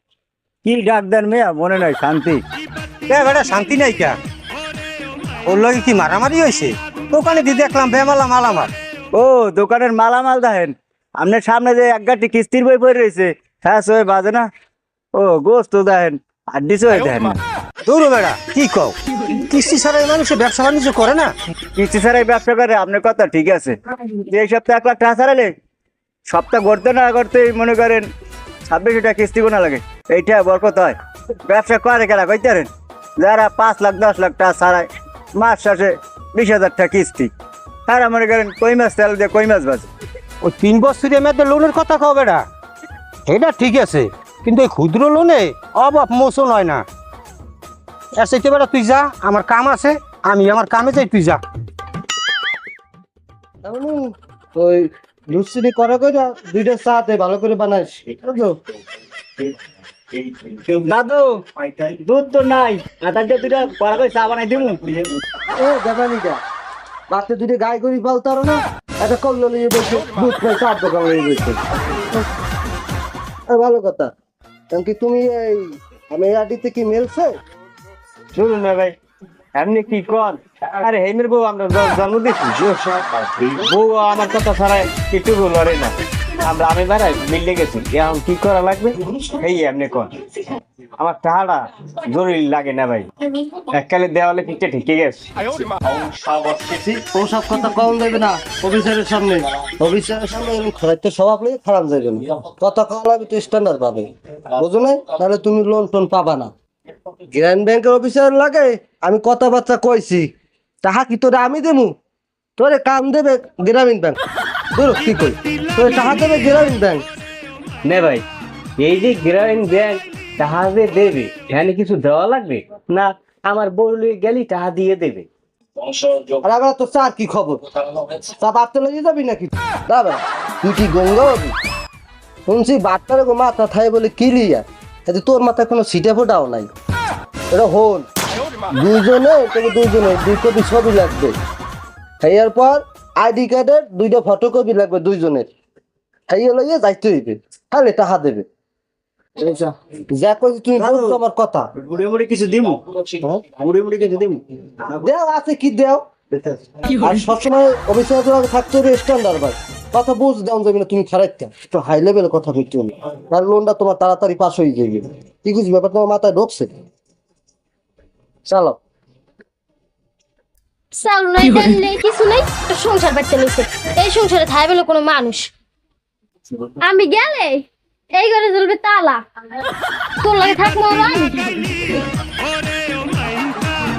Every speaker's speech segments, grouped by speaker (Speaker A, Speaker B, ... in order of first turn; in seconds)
Speaker A: 0.6-2.4, 9.2-14.5, 15.2-17.4, 21.8-23.8, 24.3-25.5, 26.3-28.1, 28.7-37.3, 37.9-39.9, 60.3-65.2, 149.4-149.7, 150.8-151.2, 151.8-152.8, 153.5-155.1, 156.3-156.6
Speaker B: 3.1-4.2, 5.5-8.7, 17.9-21.3, 40.4-42.4, 43.3-46.8, 48.2-51.4
Speaker C: 53.6-58.6, 65.5-66.4, 67.1-71.6, 73.5-74.1, 74.7-77.3, 96.6-106.5, 107.3-110.3, 110.8-112.0, 112.6-114.2, 114.7-117.0, 126.4-131.6, 132.5-136.7, 137.5-138.1, 138.8-141.4, 142.2-145.5, 146.3-148.5, 150.1-151.7, 155.0-156.1, 157.0-166.7, 168.5-168.8
Speaker D: 78.3-79.0, 79.5-82.8, 83.4-90.1, 91.0-93.1, 93.6-95.3, 117.9-118.2, 118.8-125.3
Speaker E: 171.0-175.5, 176.8-179.2, 180.2-181.4